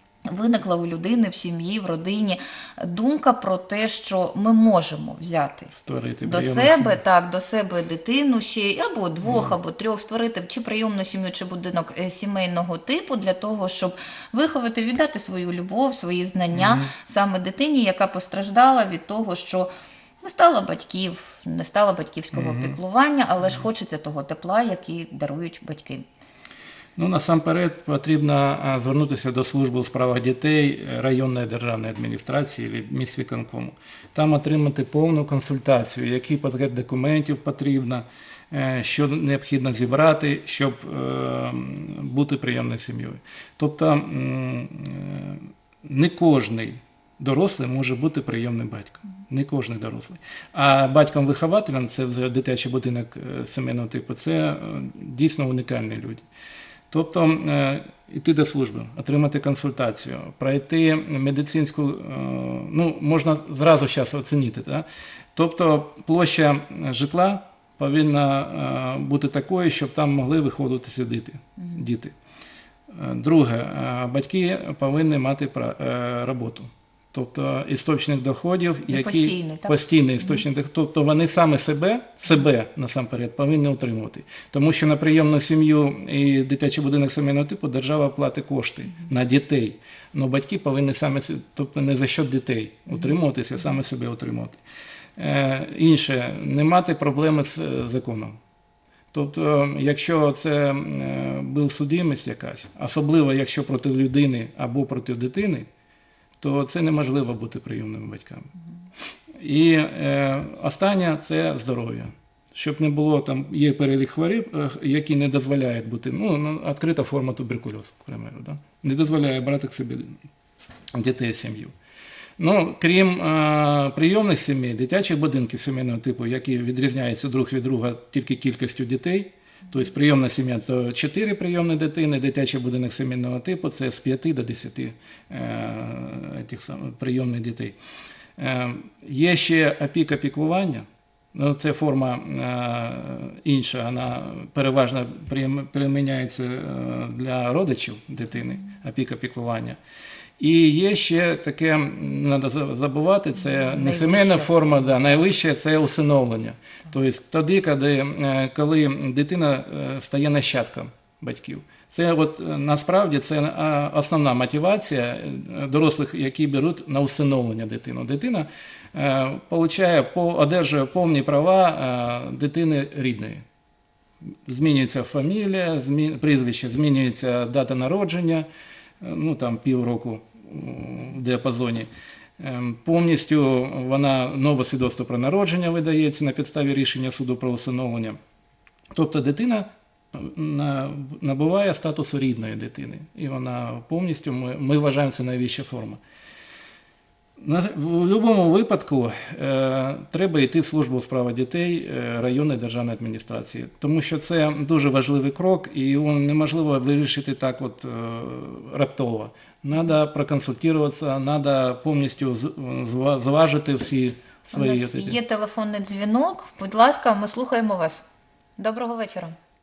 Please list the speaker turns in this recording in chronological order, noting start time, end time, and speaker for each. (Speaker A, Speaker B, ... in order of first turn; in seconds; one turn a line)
Speaker A: 0.2-5.7
Speaker B: 5.7-7.0
Speaker A: 6.2-26.1
Speaker B: 9.2-9.6
Speaker B: 16.5-16.9
Speaker B: 22.3-22.8
Speaker B: 27.0-56.2
Speaker B: 56.9-72.1
Speaker A: 71.6-71.8
Speaker B: 72.9-94.6
Speaker A: 78.9-80.4
Speaker B: 95.2-98.4
Speaker B: 99.1-105.7
Speaker B: 106.4-108.5
Speaker B: 109.3-120.2
Speaker B: 120.9-121.7
Speaker B: 122.4-137.8
Speaker B: 138.4-149.8
Speaker B: 150.4-173.4
Speaker A: 153.5-155.2
Speaker B: 174.4-178.5
Speaker B: 179.0-188.2
Speaker B: 188.9-196.0
Speaker B: 197.4-215.2
Speaker A: 214.5-218.1
Speaker A: 218.6-219.3